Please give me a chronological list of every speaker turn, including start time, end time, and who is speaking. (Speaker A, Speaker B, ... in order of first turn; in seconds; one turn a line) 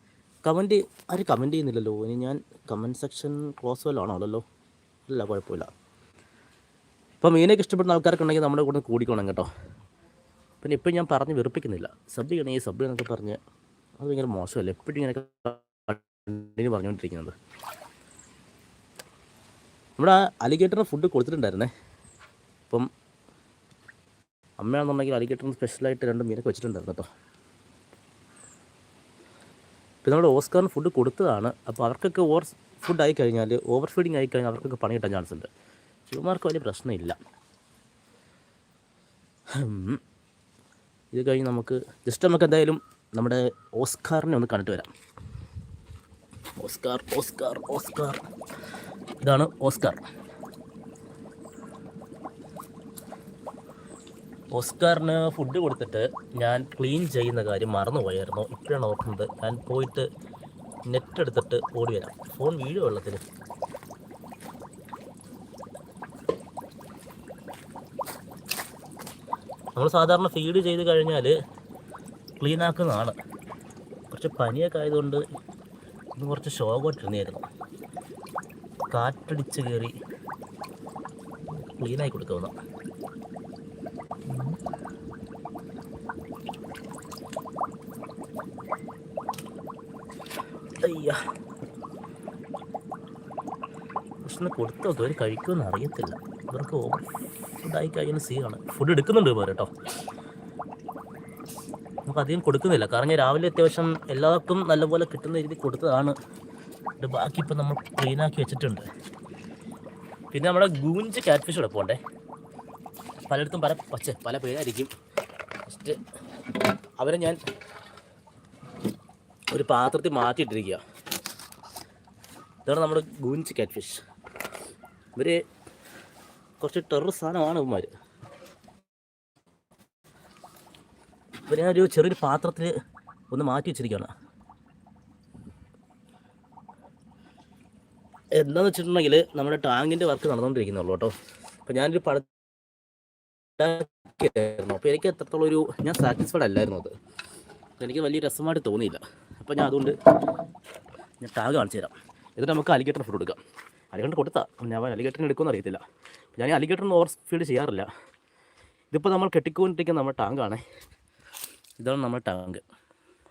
Speaker A: 0.4-4.4
Speaker A: 5.1-5.7
Speaker A: 7.2-9.5
Speaker A: 10.6-13.4
Speaker A: 14.0-17.3
Speaker A: 20.0-21.7
Speaker A: 24.6-27.1
Speaker A: 30.0-35.5
Speaker A: 36.1-37.2
Speaker A: 39.5-40.0
Speaker A: 41.1-44.9
Speaker A: 46.6-48.2
Speaker A: 49.2-50.0
Speaker A: 54.5-60.1
Speaker A: 60.9-63.2
Speaker A: 69.7-71.3
Speaker A: 72.4-73.2
Speaker A: 74.1-75.2
Speaker A: 76.2-77.5
Speaker A: 78.9-79.9
Speaker A: 81.4-82.5
Speaker A: 84.3-84.6
Speaker A: 90.8-91.2
Speaker A: 94.2-99.7
Speaker A: 102.0-106.2
Speaker A: 107.0-108.9
Speaker A: 110.3-112.0
Speaker A: 113.3-114.9
Speaker A: 115.7-116.0
Speaker A: 117.0-117.4
Speaker A: 119.5-120.8
Speaker A: 122.7-124.0
Speaker A: 125.2-125.4
Speaker A: 126.6-127.9
Speaker A: 131.4-132.7
Speaker A: 133.3-134.1
Speaker A: 138.3-141.1
Speaker A: 141.7-142.2
Speaker A: 143.6-146.9
Speaker A: 147.8-149.9
Speaker A: 151.2-153.4
Speaker A: 153.9-155.8
Speaker A: 156.3-157.9
Speaker A: 158.9-160.6
Speaker A: 161.8-162.6